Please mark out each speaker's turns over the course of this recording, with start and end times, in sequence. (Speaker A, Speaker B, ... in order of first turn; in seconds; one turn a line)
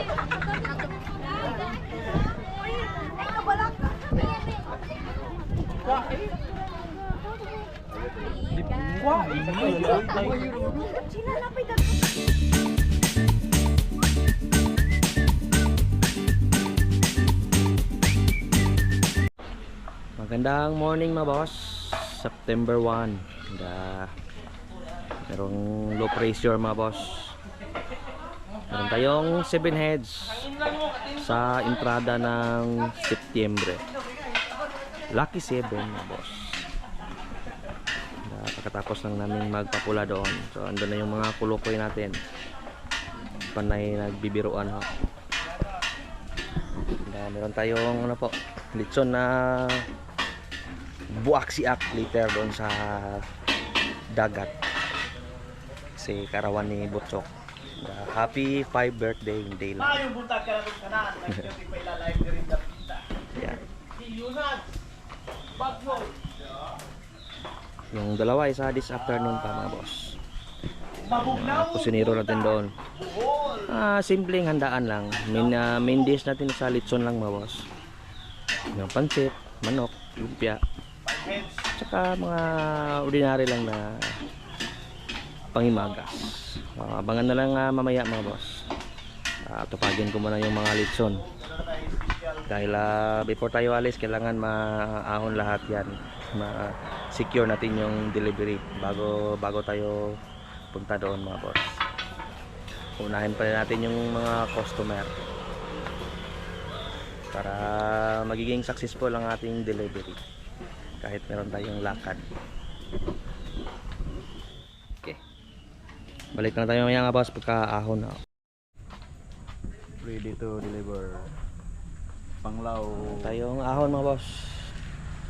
Speaker A: 8.8-10.6
Speaker B: 20.2-24.1
Speaker B: 25.3-27.3
Speaker B: 28.7-30.5
Speaker B: 31.1-33.8
Speaker B: 35.1-36.6
Speaker B: 38.3-42.2
Speaker B: 43.5-44.9
Speaker B: 46.9-49.8
Speaker B: 51.1-53.2
Speaker B: 54.1-54.5
Speaker B: 56.0-57.3
Speaker B: 57.8-60.0
Speaker C: 59.8-63.0
Speaker B: 63.4-63.6
Speaker B: 67.9-70.2
Speaker B: 71.1-72.7
Speaker B: 73.6-77.6
Speaker B: 78.7-80.6
Speaker C: 81.1-81.5
Speaker B: 81.7-84.0
Speaker B: 85.5-88.6
Speaker B: 89.5-91.2
Speaker C: 91.8-92.2
Speaker B: 92.5-100.1
Speaker B: 100.7-101.7
Speaker B: 103.0-105.2
Speaker B: 107.3-110.2
Speaker B: 111.0-112.2
Speaker B: 116.3-118.2
Speaker A: 120.0-121.3
Speaker A: 122.4-123.4
Speaker B: 123.0-124.7